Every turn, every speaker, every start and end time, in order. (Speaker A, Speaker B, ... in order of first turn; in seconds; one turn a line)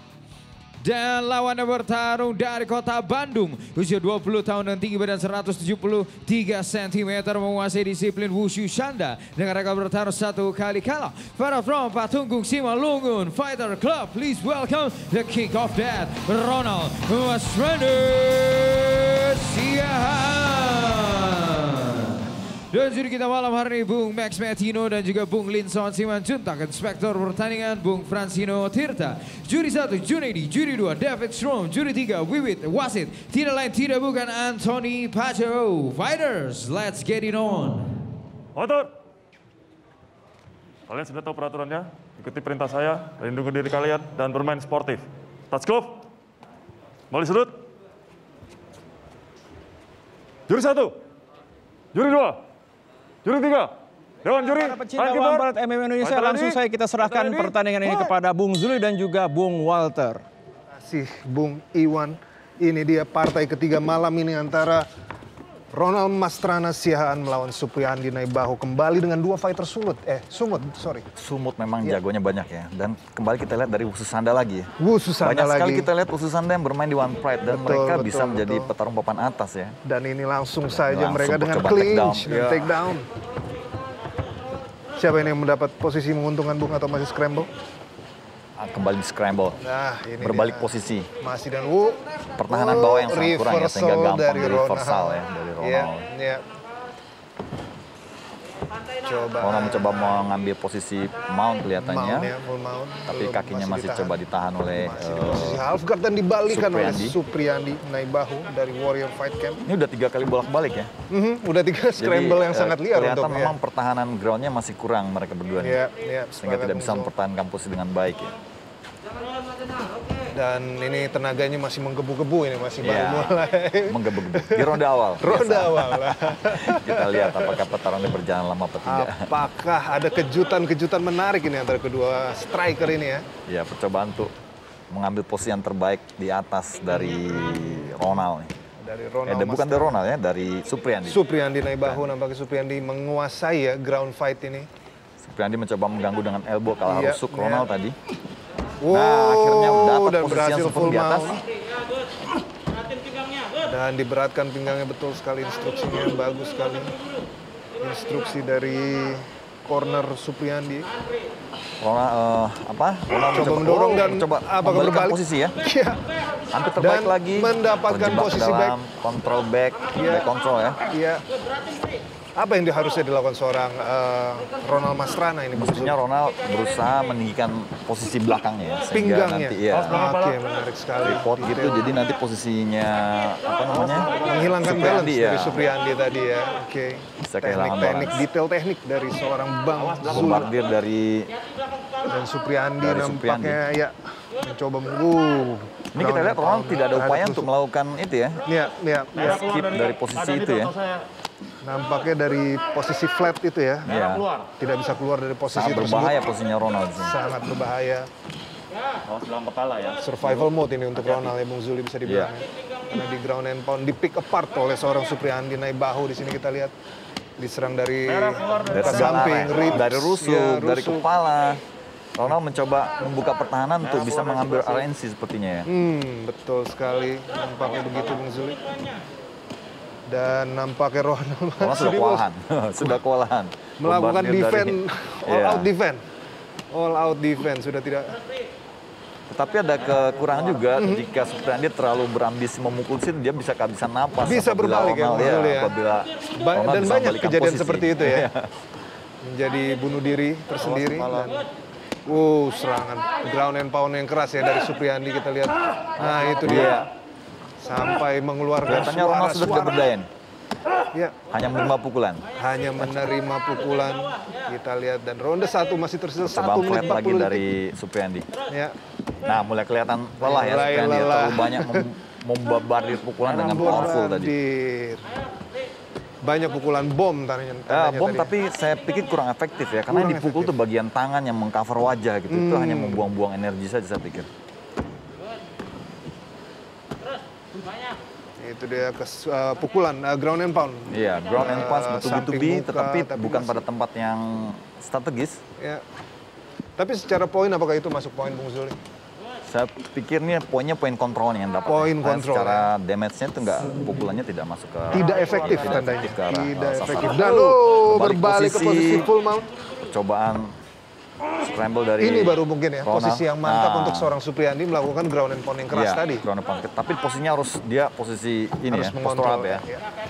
Speaker A: 0.8-38.0
Speaker B: 38.5-38.9
Speaker B: 40.9-46.0
Speaker B: 47.1-47.6
Speaker B: 50.5-51.0
Speaker B: 51.9-52.4
Speaker B: 53.2-58.1
Speaker C: 54.4-60.2
Speaker D: 60.8-64.9
Speaker D: 65.7-71.1
Speaker E: 71.2-74.7
Speaker D: 74.8-75.9
Speaker E: 75.2-79.8
Speaker D: 77.5-78.7
Speaker D: 79.9-83.1
Speaker E: 80.7-82.7
Speaker D: 85.0-87.5
Speaker E: 88.6-89.6
Speaker D: 89.6-96.5
Speaker E: 90.2-91.1
Speaker E: 92.4-96.0
Speaker D: 99.0-100.2
Speaker E: 99.4-102.3
Speaker D: 101.8-104.1
Speaker E: 103.1-105.7
Speaker D: 104.7-109.6
Speaker E: 106.5-107.2
Speaker E: 109.7-110.9
Speaker D: 111.1-113.5
Speaker E: 112.0-115.8
Speaker D: 115.6-117.1
Speaker E: 116.4-118.3
Speaker D: 120.3-127.6
Speaker E: 122.8-129.3
Speaker D: 128.9-133.2
Speaker E: 133.5-134.3
Speaker E: 134.9-138.5
Speaker D: 137.1-137.9
Speaker D: 138.8-139.9
Speaker E: 139.2-141.2
Speaker D: 141.1-144.7
Speaker E: 141.8-142.1
Speaker E: 145.2-148.0
Speaker D: 146.9-147.7
Speaker D: 148.8-151.4
Speaker E: 148.9-151.4
Speaker D: 153.6-156.9
Speaker D: 157.8-160.9
Speaker E: 161.8-165.6
Speaker D: 163.3-166.1
Speaker E: 166.5-170.8
Speaker D: 166.8-168.8
Speaker D: 170.0-170.3
Speaker D: 170.9-171.2
Speaker D: 172.4-175.9
Speaker E: 175.5-180.1
Speaker D: 178.9-181.9
Speaker B: 179.7-180.4
Speaker E: 181.0-185.6
Speaker B: 183.7-184.6
Speaker D: 184.1-190.5
Speaker E: 187.2-188.2
Speaker B: 189.7-190.5
Speaker E: 190.0-191.3
Speaker D: 192.1-197.5
Speaker E: 192.8-193.6
Speaker E: 195.9-198.4
Speaker D: 198.5-199.5
Speaker B: 199.2-201.0
Speaker E: 199.2-200.8
Speaker D: 201.6-203.9
Speaker E: 203.9-204.3
Speaker B: 203.9-204.5
Speaker D: 204.6-206.2
Speaker E: 205.5-207.2
Speaker D: 207.0-208.1
Speaker B: 209.1-211.3
Speaker D: 210.0-216.7
Speaker E: 212.1-212.3
Speaker D: 217.4-221.1
Speaker B: 218.1-219.7
Speaker E: 218.7-221.6
Speaker E: 222.2-225.7
Speaker B: 223.8-224.9
Speaker D: 225.7-228.6
Speaker B: 227.6-228.2
Speaker D: 230.1-232.3
Speaker E: 231.6-235.7
Speaker D: 233.8-236.1
Speaker D: 236.7-238.2
Speaker E: 239.3-248.5
Speaker D: 240.7-241.1
Speaker D: 244.2-245.7
Speaker D: 246.4-248.3
Speaker D: 249.2-251.4
Speaker B: 250.6-251.4
Speaker D: 252.1-256.9
Speaker E: 256.0-256.9
Speaker D: 257.6-259.9
Speaker E: 258.6-260.1
Speaker E: 261.3-262.3
Speaker D: 262.4-267.4
Speaker E: 266.2-268.3
Speaker D: 268.5-268.8
Speaker E: 269.2-274.3
Speaker D: 270.2-271.9
Speaker D: 273.2-275.1
Speaker D: 276.2-278.3
Speaker E: 277.7-284.3
Speaker D: 279.9-280.5
Speaker D: 282.3-283.1
Speaker D: 288.4-293.6
Speaker E: 290.9-295.4
Speaker D: 296.8-298.8
Speaker E: 299.4-309.1
Speaker D: 301.7-302.7
Speaker B: 304.9-305.9
Speaker D: 304.9-309.5
Speaker E: 309.9-310.6
Speaker E: 311.4-314.1
Speaker D: 312.0-316.2
Speaker E: 315.7-319.6
Speaker D: 318.7-319.8